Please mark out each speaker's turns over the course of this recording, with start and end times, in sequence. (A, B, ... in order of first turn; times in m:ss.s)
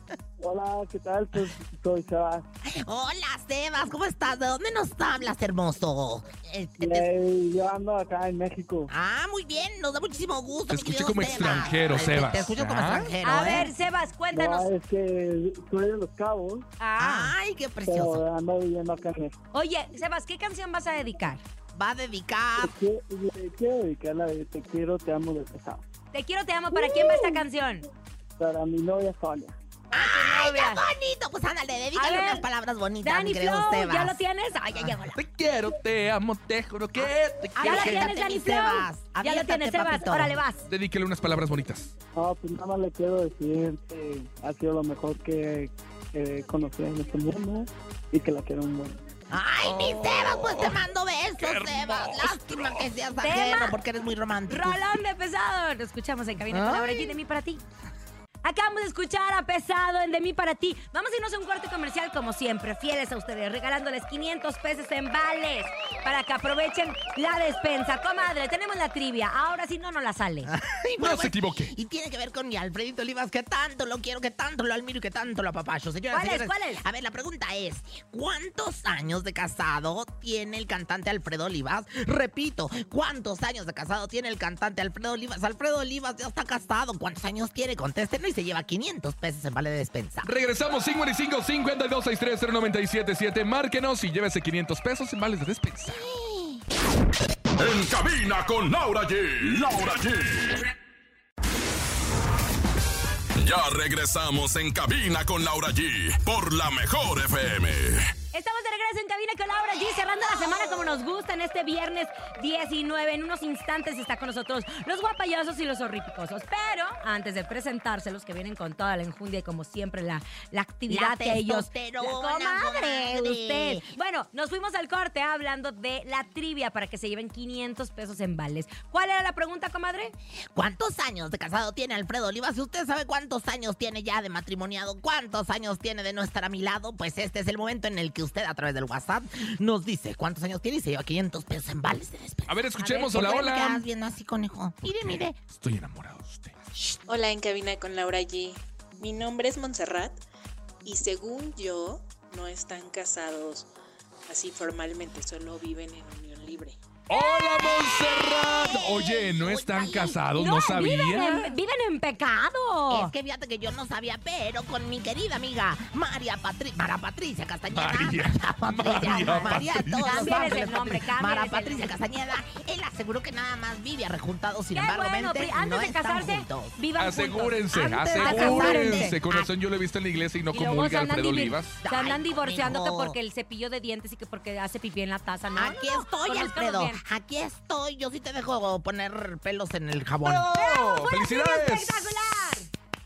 0:00.4-0:02.4 A
0:02.7-0:07.1 B
0:06.8-0:08.9 A
0:08.9-0:13.7 B
0:10.7-0:13.1 C
0:13.2-0:14.7 D
0:14.3-0:16.6 A
0:16.8-0:17.3 D
0:17.0-0:18.2 B
0:17.9-0:19.4 A
0:19.5-0:21.4 D
0:21.8-0:22.7 B
0:22.6-0:25.8 A
0:26.1-0:27.9 D
0:26.7-0:27.4 A
0:28.4-0:29.5 A
0:29.9-0:34.2 B
0:29.9-0:30.8 D
0:32.0-0:32.5 D
0:33.0-0:35.2 D
0:35.1-0:38.1 C
0:37.0-0:40.4 B
0:37.6-0:40.6 D
0:40.7-0:41.9 C
0:42.2-0:49.0 A
0:49.3-0:54.8 B
0:49.6-0:50.8 C
0:51.4-0:52.9 C
0:53.1-0:53.8 D
0:54.5-0:57.6 D
0:56.5-0:57.1 B
0:58.4-1:10.5 D
1:10.5-1:30.3 B
1:11.0-1:11.7 C
1:16.1-1:16.8 D
1:30.2-1:36.0 C
1:35.9-1:36.6 B
1:37.6-1:40.7 E
1:43.4-1:48.1 E
1:48.3-2:10.1 D
2:00.9-2:03.9 B
2:10.5-2:25.4 B
2:22.5-2:23.8 C
2:24.8-2:26.5 C
2:27.1-2:30.2 F
2:30.8-2:33.7 F
2:34.3-2:36.8 F
2:37.1-2:41.5 C
2:37.6-2:40.2 B
2:40.4-2:43.1 D
2:42.9-2:56.8 B
2:47.7-2:50.2 C
2:50.0-2:51.9 D
2:54.7-2:59.2 D
2:57.0-3:01.8 C
2:57.7-2:59.5 B
3:00.5-3:07.0 D
3:01.8-3:03.1 B
3:05.6-3:10.5 B
3:10.2-3:12.2 C
3:10.5-3:12.7 D